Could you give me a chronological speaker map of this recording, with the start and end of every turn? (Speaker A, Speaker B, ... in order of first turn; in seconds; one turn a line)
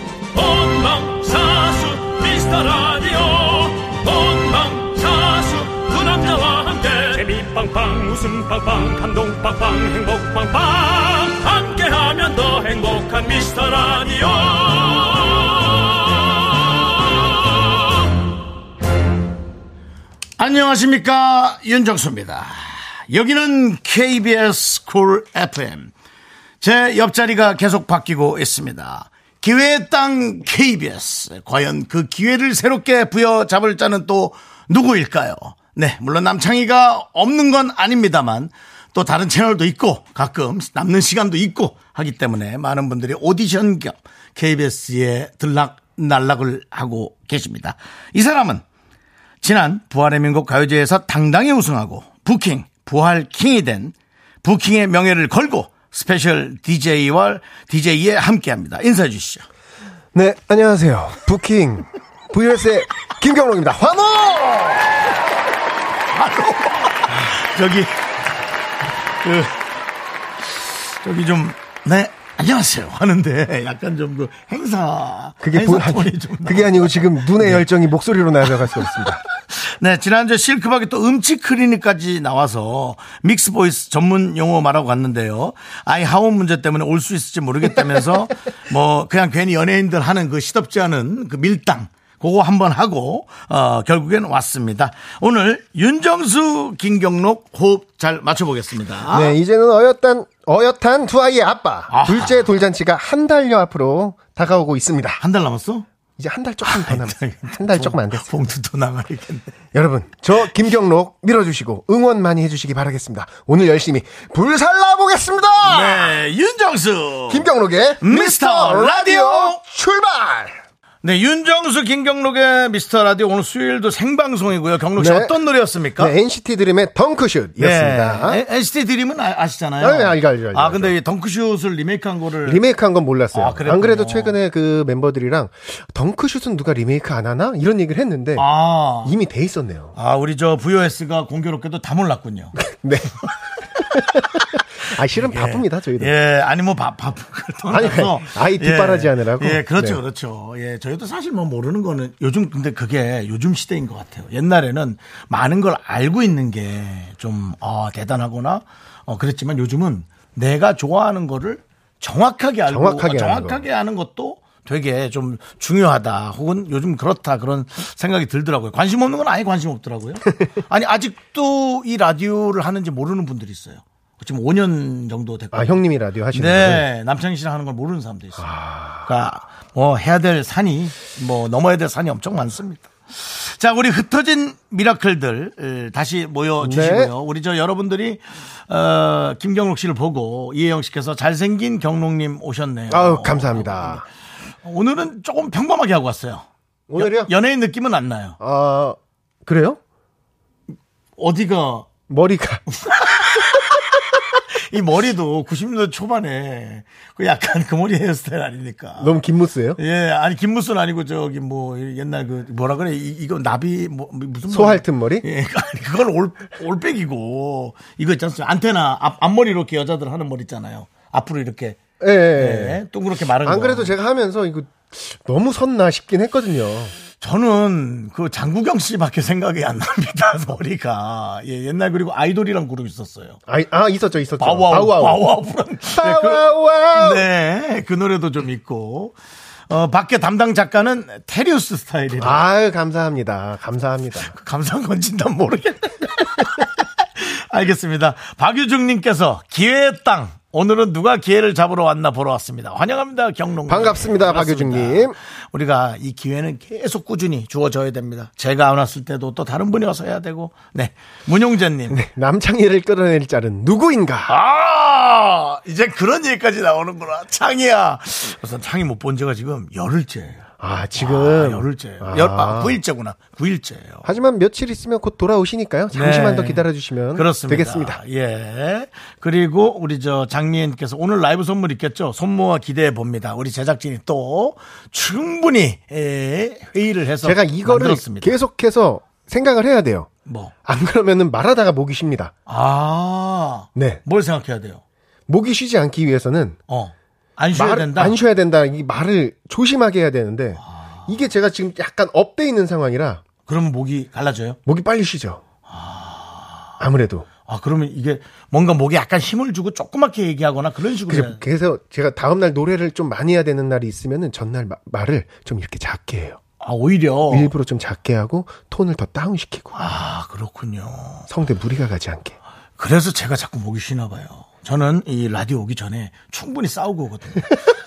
Speaker A: 0.3-15.9
Speaker B: 20.4-22.5
Speaker B: 23.1-25.9
Speaker B: 26.6-48.6
Speaker B: 49.4-59.4
Speaker C: 60.1-64.9
Speaker B: 66.1-68.0
Speaker B: 69.2-69.6
Speaker B: 70.5-77.7
Speaker C: 75.4-79.2
Speaker B: 78.8-99.4
Speaker C: 99.1-105.2
Speaker B: 101.9-102.5
Speaker B: 105.2-105.9
Speaker C: 106.2-108.3
Speaker B: 106.6-109.5
Speaker C: 109.7-116.2
Speaker B: 115.6-117.5
Speaker C: 117.3-120.6
Speaker B: 118.0-119.6
Speaker B: 121.0-126.1
Speaker C: 125.0-125.3
Speaker C: 126.0-128.4
Speaker B: 127.6-132.6
Speaker C: 129.8-130.9
Speaker C: 132.4-138.4
Speaker B: 133.3-134.4
Speaker B: 138.4-139.2
Speaker C: 139.0-139.9
Speaker B: 139.9-142.6
Speaker C: 142.6-143.2
Speaker C: 143.9-144.2
Speaker C: 144.8-146.1
Speaker B: 145.1-178.5
Speaker C: 147.7-150.0
Speaker C: 162.7-163.6
Speaker C: 175.5-176.9
Speaker C: 178.4-179.1
Speaker B: 179.0-194.1
Speaker C: 186.6-187.1
Speaker C: 192.9-194.1
Speaker B: 194.6-198.4
Speaker C: 196.9-197.3
Speaker C: 198.4-199.8
Speaker B: 201.2-201.9
Speaker C: 202.1-202.6
Speaker B: 202.9-203.9
Speaker B: 204.7-209.1
Speaker C: 209.0-209.8
Speaker B: 209.8-221.8
Speaker C: 214.5-215.2
Speaker C: 222.0-222.8
Speaker B: 222.3-223.9
Speaker C: 223.4-226.9
Speaker B: 227.2-233.4
Speaker C: 233.5-235.2
Speaker B: 234.4-239.2
Speaker C: 236.0-237.2
Speaker B: 239.7-242.5
Speaker C: 242.2-244.3
Speaker B: 244.3-262.0
Speaker C: 253.7-255.2
Speaker C: 261.9-264.4
Speaker B: 264.2-270.4
Speaker C: 270.6-272.8
Speaker B: 271.0-274.1
Speaker C: 274.1-278.0
Speaker B: 275.9-288.4
Speaker C: 287.2-290.1
Speaker B: 290.2-290.5
Speaker C: 290.6-292.3
Speaker B: 292.5-294.8
Speaker C: 293.8-294.0
Speaker C: 295.3-296.6
Speaker B: 296.7-298.2
Speaker C: 297.5-303.2
Speaker B: 300.6-301.1
Speaker B: 303.5-304.6
Speaker C: 304.7-305.4
Speaker B: 305.7-306.7
Speaker C: 306.8-307.3
Speaker B: 307.5-311.4
Speaker C: 311.1-316.4
Speaker B: 316.6-317.5
Speaker C: 317.3-319.9
Speaker B: 319.8-321.3
Speaker C: 321.3-322.4
Speaker B: 322.8-327.5